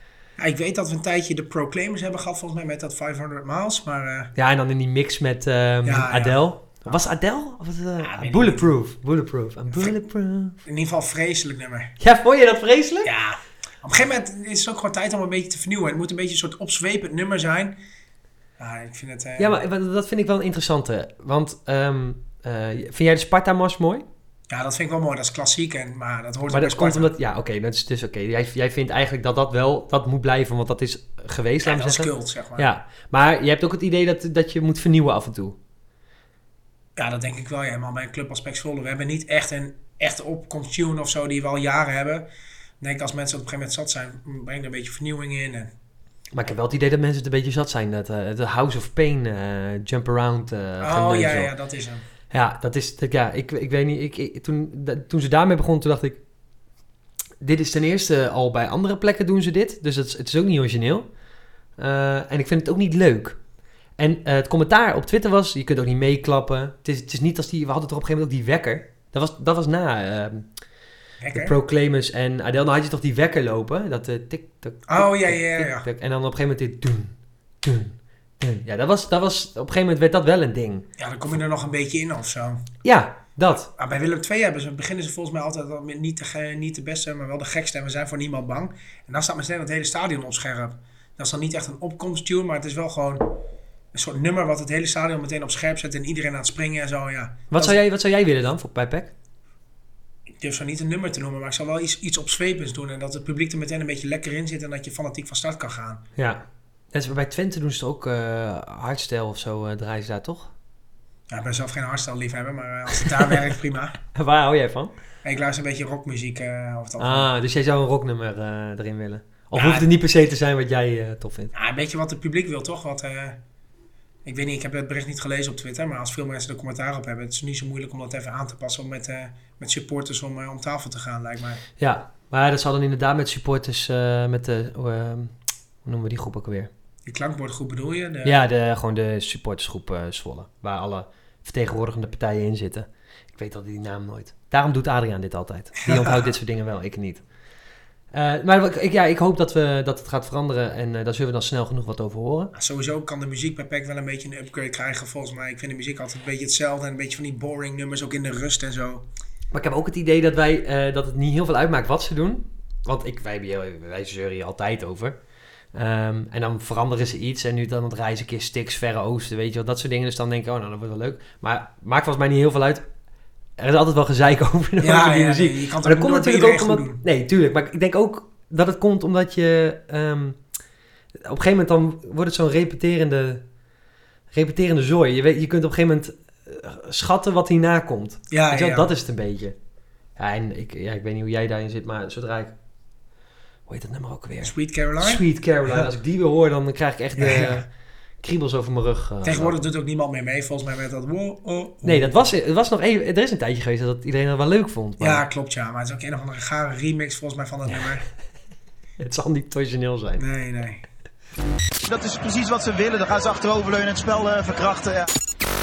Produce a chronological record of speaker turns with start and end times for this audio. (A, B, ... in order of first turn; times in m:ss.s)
0:00.4-0:04.3 A
0:04.3-0:10.6 B
0:05.8-0:07.0 A
0:08.0-0:08.7 A
0:10.6-0:11.9 A
0:12.0-0:13.1 B
0:13.0-0:17.8 A
0:18.6-0:19.6 A
0:19.4-0:24.0 B
0:24.5-0:27.1 A
0:26.5-0:35.6 B
0:31.6-0:32.7 A
0:37.0-0:42.3 A
0:42.8-0:45.7 A
0:46.3-0:51.5 B
0:50.8-0:52.0 A
0:52.3-0:56.2 B
0:57.4-1:01.1 B
1:01.8-1:03.4 B
1:04.0-1:10.5 B
1:11.2-1:11.5 A
1:11.3-1:20.8 B
1:14.9-1:15.8 A
1:21.0-1:22.6 A
1:22.8-1:23.7 B
1:23.8-1:33.4 A
1:33.9-1:37.8 A
1:37.5-1:39.1 B
1:40.4-1:46.0 A
1:46.2-1:50.5 B
1:51.3-1:54.0 A
1:54.1-1:54.9 B
1:55.2-1:57.3 A
1:57.0-2:01.5 B
1:59.5-1:59.9 A
2:01.5-2:03.4 A
2:04.2-2:11.6 A
2:11.8-2:16.7 B
2:17.0-2:18.4 A
2:18.2-2:27.2 B
2:25.8-2:26.3 A
2:28.1-2:32.5 B
2:32.5-2:39.0 A
2:39.5-2:45.2 B
2:45.7-2:52.8 B
2:53.6-3:00.4 B
2:54.8-2:57.0 A
3:01.2-3:03.4 B
3:04.3-3:09.5 B
3:08.3-3:08.9 A
3:10.2-3:12.5 B
3:13.7-3:17.6 B
3:14.4-3:15.9 A
3:17.2-3:17.6 A
3:18.2-3:19.6 B
3:19.2-3:22.2 A
3:21.8-3:25.2 B
3:25.0-3:28.0 A
3:29.0-3:30.2 B
3:30.2-3:30.8 A
3:31.9-3:35.1 C